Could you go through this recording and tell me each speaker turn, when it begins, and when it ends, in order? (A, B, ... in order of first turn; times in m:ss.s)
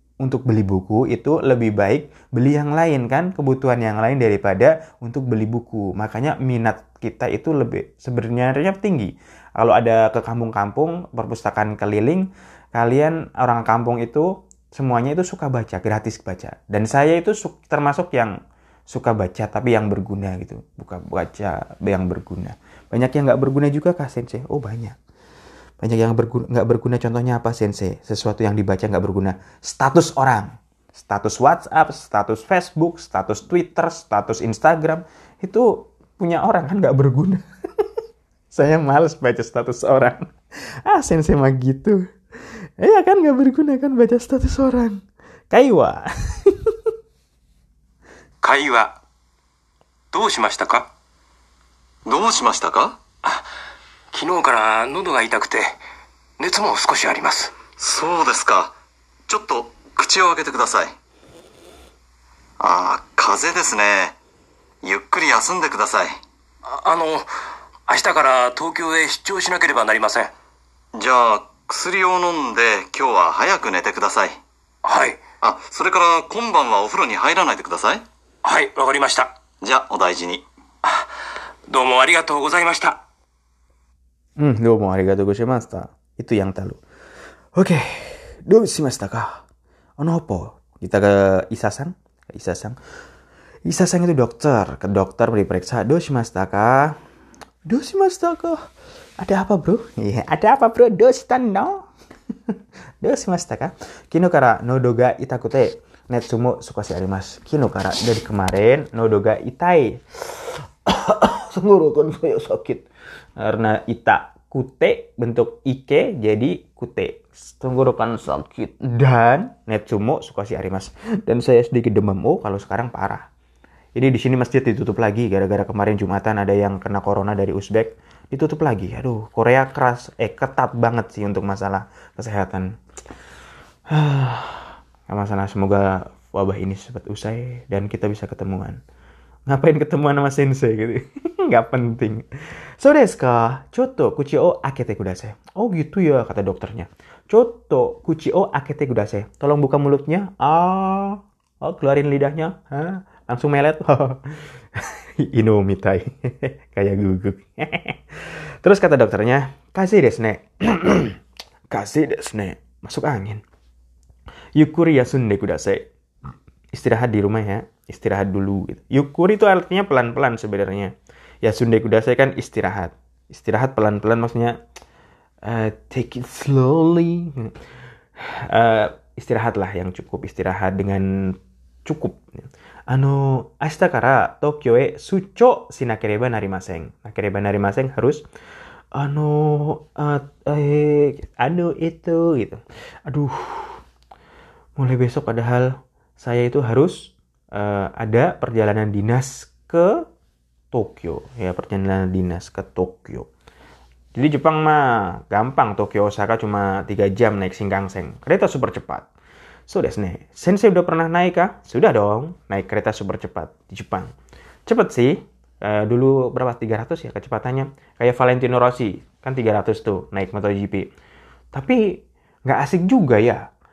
0:00.2-0:18.4 A
0:18.9-0:25.0 A
0:25.8-0:37.4 A
0:38.5-0:40.2 A
0:40.8-0:42.1 A
0:42.8-0:46.7 A
0:48.4-0:48.9 B
0:50.1-0:50.9 B
0:52.0-0:53.0 C
0:54.1-0:55.8 B
0:56.4-0:57.5 B
0:57.8-0:58.7 C
0:59.3-1:01.0 C
1:02.6-1:04.2 C
1:04.8-1:06.2 C
1:06.6-1:07.3 B
1:07.9-1:10.3 B
1:10.9-1:14.4 C
1:14.8-1:15.2 B
1:15.4-1:18.0 C
1:18.4-1:19.3 B
1:19.6-1:20.4 C
1:21.7-1:23.0 B
1:24.4-1:26.8 A
1:27.5-1:29.4 A
1:30.0-1:32.8 A
1:33.6-1:37.0 A
1:37.6-1:38.6 A
1:39.2-1:41.8 A
1:43.0-1:52.8 A
1:53.4-2:03.3 A
2:03.9-2:12.7 A
2:13.9-2:18.8 A
2:19.5-2:22.2 A
2:22.8-2:34.2 A
2:34.8-2:41.2 A
2:41.7-2:43.4 A
2:44.6-2:45.8 A
2:46.7-2:54.6 A
2:55.4-2:57.5 A
2:58.2-3:08.2 A
3:08.9-3:13.8 A
3:14.8-3:20.0 A
3:20.7-3:23.3 A
3:24.1-3:29.1 A
3:29.7-3:34.1 A
3:34.7-3:40.9 A
3:41.5-3:43.4 A